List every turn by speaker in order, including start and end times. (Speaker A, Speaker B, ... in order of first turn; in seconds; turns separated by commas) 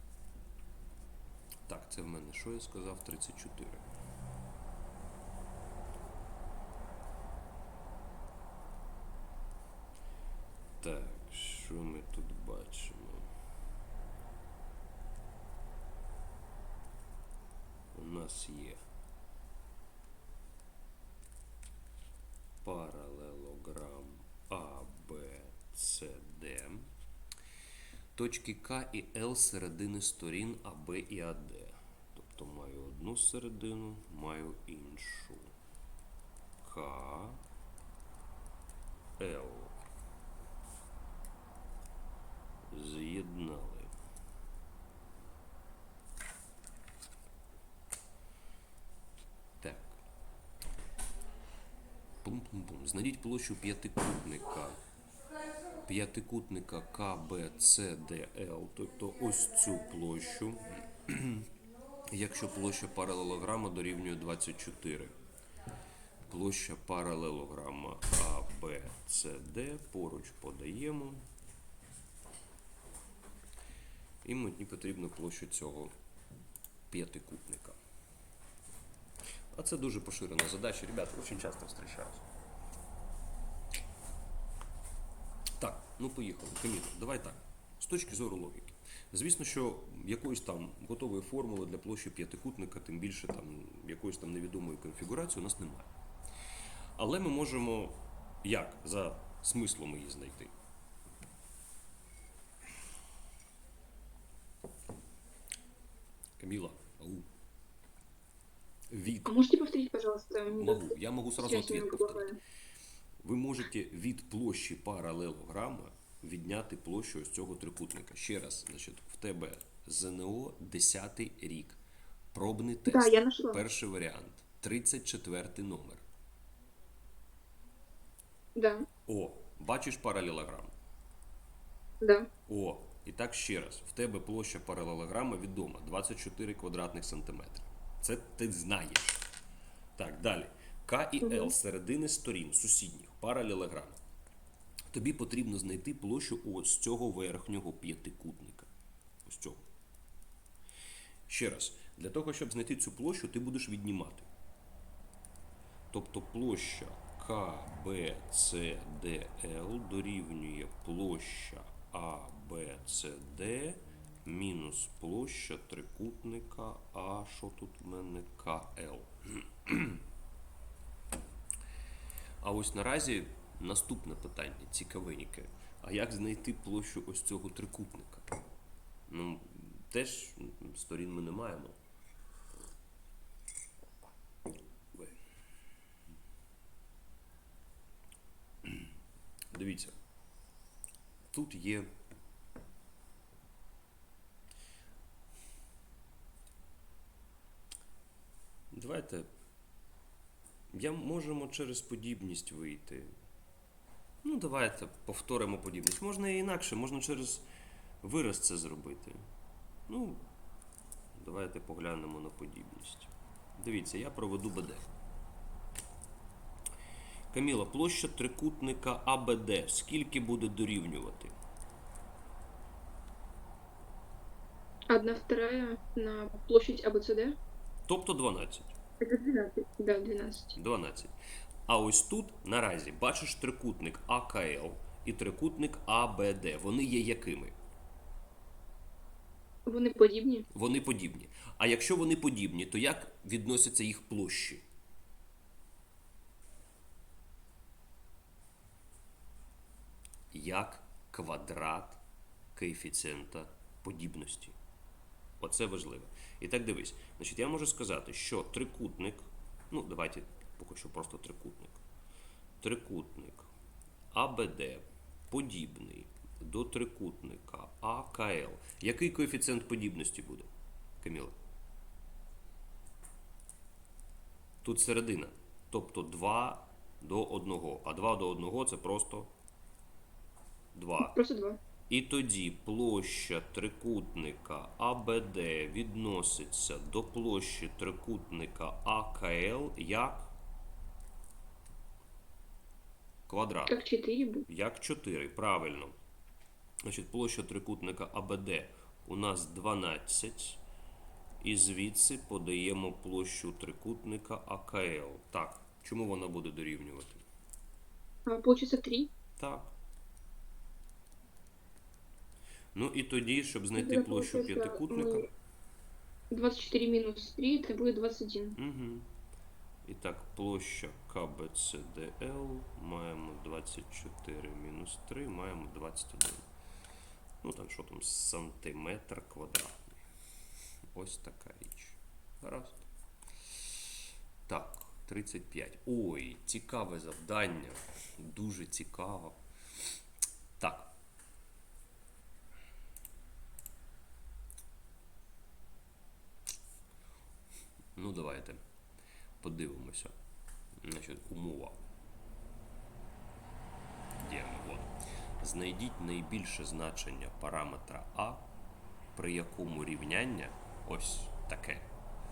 Speaker A: 1.7-3.8, Speaker A: 10.8-13.3, Speaker A: 17.9-18.8, Speaker A: 22.6-26.9, Speaker A: 28.1-35.5, Speaker A: 36.6-37.4, Speaker A: 39.2-39.8, Speaker A: 42.7-43.9, Speaker A: 49.6-50.0, Speaker A: 52.2-54.8, Speaker A: 55.9-61.5, Speaker A: 62.1-65.1, Speaker A: 66.3-71.3, Speaker A: 74.2-75.9, Speaker A: 76.9-77.8, Speaker A: 79.5-82.2, Speaker A: 85.6-95.9, Speaker A: 97.0-100.5, Speaker A: 106.4-107.3, Speaker A: 108.9-109.3, Speaker B: 109.3-112.4, Speaker A: 110.6-112.3, Speaker A: 113.2-121.8, Speaker A: 122.3-126.1, Speaker B: 122.9-123.6, Speaker B: 128.6-128.9, Speaker A: 129.1-130.7, Speaker B: 132.0-132.3, Speaker A: 132.5-139.2, Speaker A: 140.0-144.0, Speaker B: 141.2-141.5, Speaker A: 144.9-148.7, Speaker A: 149.3-149.6, Speaker A: 151.3-154.3, Speaker A: 155.9-170.0, Speaker A: 172.4-178.3, Speaker A: 179.1-181.8, Speaker A: 184.9-185.2, Speaker A: 189.5-189.9, Speaker A: 191.3-191.9, Speaker A: 198.7-199.3, Speaker A: 200.7-203.1, Speaker A: 204.2-207.4, Speaker A: 208.0-209.2, Speaker A: 209.9-210.2, Speaker A: 211.2-214.9, Speaker A: 217.3-221.3, Speaker B: 224.9-227.4, Speaker A: 227.9-228.8, Speaker B: 229.0-230.6, Speaker A: 230.6-231.2, Speaker A: 231.7-237.6, Speaker B: 239.7-240.5, Speaker A: 240.5-244.6, Speaker A: 250.3-252.0, Speaker A: 252.6-254.6, Speaker A: 255.4-261.8, Speaker A: 262.6-263.5, Speaker A: 264.1-270.5, Speaker A: 271.0-271.4, Speaker A: 274.6-279.3, Speaker A: 280.7-281.2, Speaker B: 281.0-281.6, Speaker A: 281.9-290.3, Speaker A: 293.3-293.8, Speaker B: 293.7-294.5, Speaker A: 294.5-296.0, Speaker A: 296.8-300.6, Speaker A: 301.4-307.2, Speaker B: 308.3-309.1, Speaker A: 309.4-309.7, Speaker A: 312.7-315.3, Speaker B: 313.8-315.2, Speaker B: 316.3-318.6, Speaker A: 318.6-319.1, Speaker A: 319.9-326.5, Speaker A: 327.4-330.0, Speaker A: 330.9-332.9, Speaker A: 334.5-339.4, Speaker A: 340.6-340.9, Speaker A: 348.0-348.6, Speaker A: 349.4-350.1, Speaker A: 350.8-351.8, Speaker A: 354.2-358.5, Speaker A: 359.1-361.9